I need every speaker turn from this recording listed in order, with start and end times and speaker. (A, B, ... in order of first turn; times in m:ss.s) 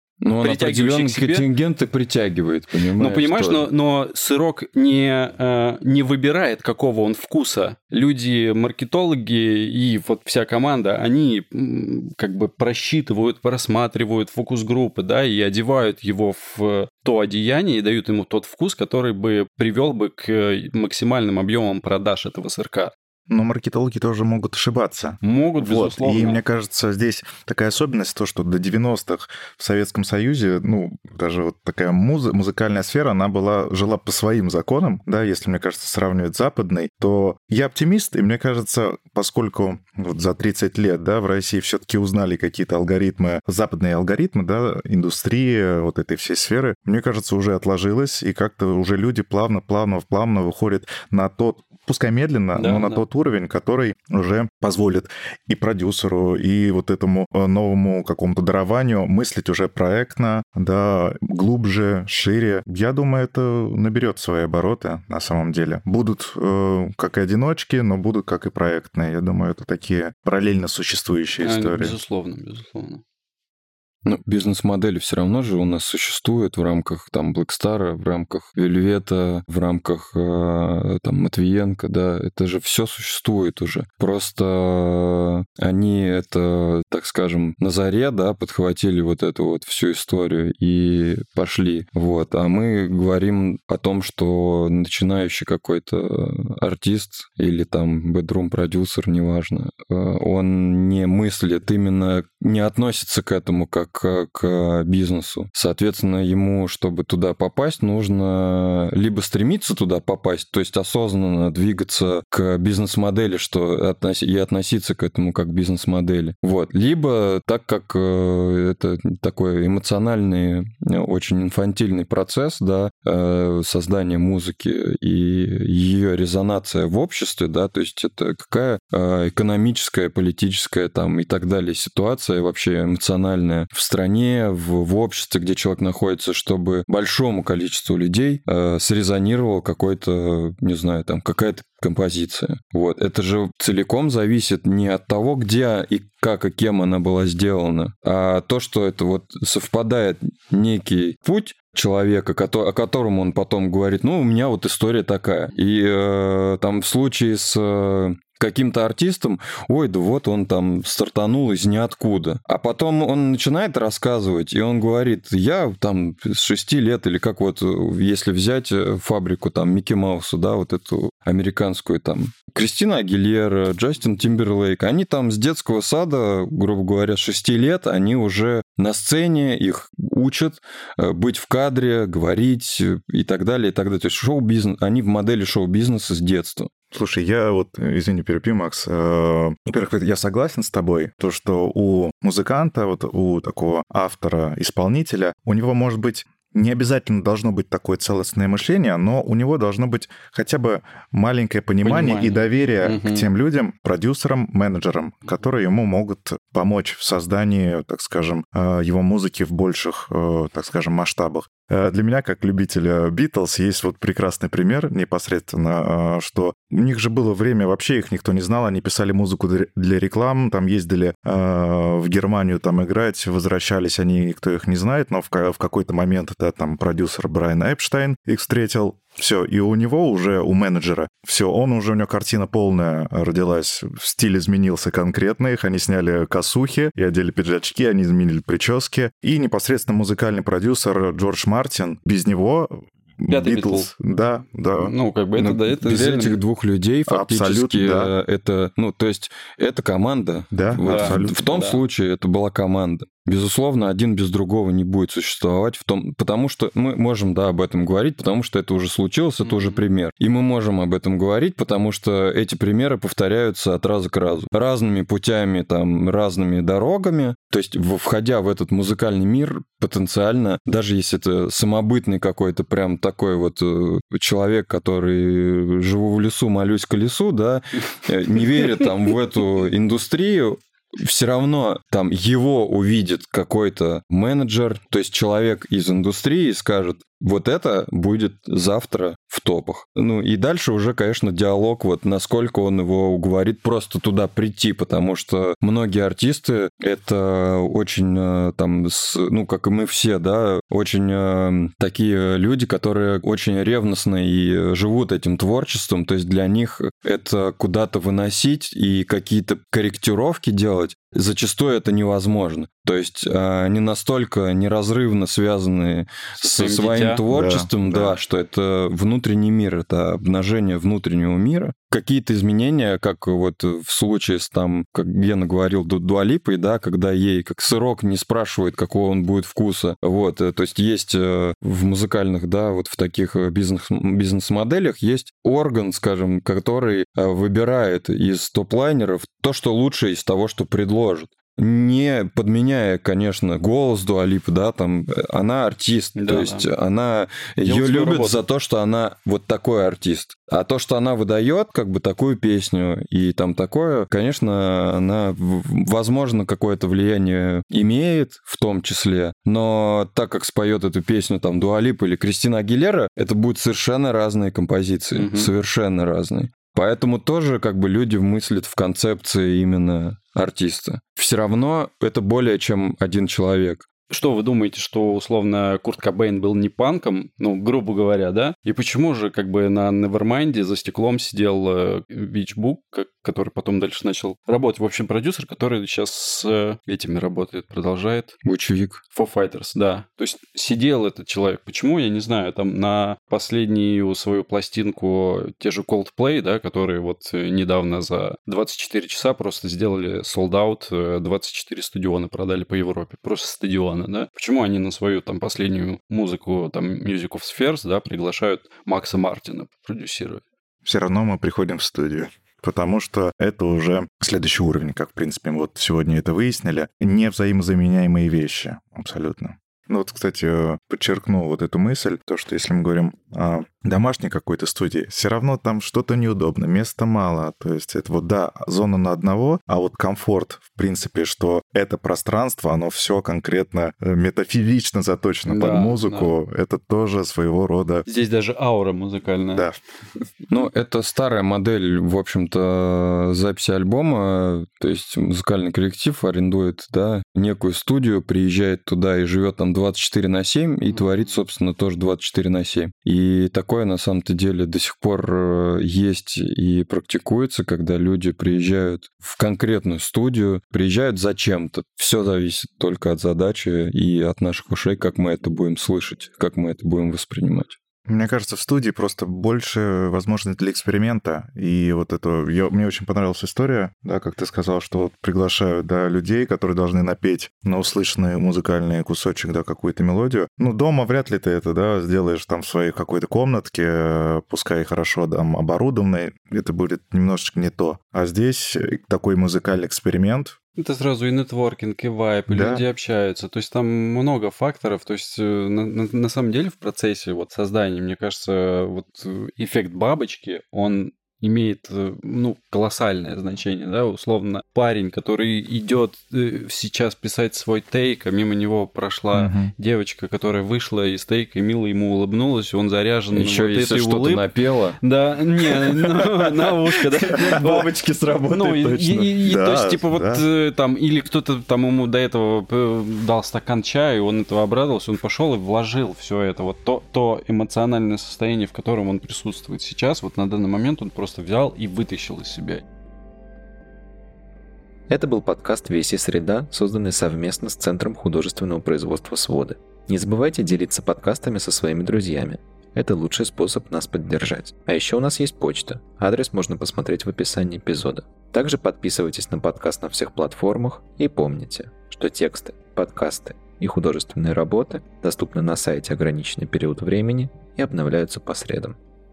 0:00.2-0:03.7 A
0:00.4-0:01.4 B
0:03.0-0:22.9 B
0:23.3-1:12.0 C
0:25.2-0:26.4 B
0:52.6-0:53.0 B
1:11.4-1:13.0 B
1:14.0-3:06.7 A
3:06.9-4:04.9 C
3:21.8-3:23.2 B
4:03.3-4:03.9 B
4:04.8-4:06.4 B
4:05.4-6:13.9 A
4:07.1-4:08.1 C
4:10.5-4:11.6 C
4:10.8-4:11.8 B
4:19.4-4:19.8 B
5:16.4-5:17.2 B
5:17.3-5:18.2 C
5:46.2-5:46.7 B
5:47.6-5:48.4 B
6:05.1-6:05.5 B
6:14.1-6:28.4 B
6:28.4-6:29.0 A
6:29.1-6:50.4 B
6:50.8-7:18.0 C
7:15.5-7:16.3 B
7:18.0-7:19.7 B
7:20.5-7:47.8 A
7:48.0-8:10.6 C
8:10.8-8:34.4 B
8:12.5-8:12.8 C
8:29.3-8:29.7 C
8:33.3-8:35.0 A
8:35.0-8:37.9 B
8:35.7-8:36.4 A
8:37.3-8:39.2 A
8:38.5-8:52.8 B
8:39.1-8:40.4 C
8:55.1-9:19.0 D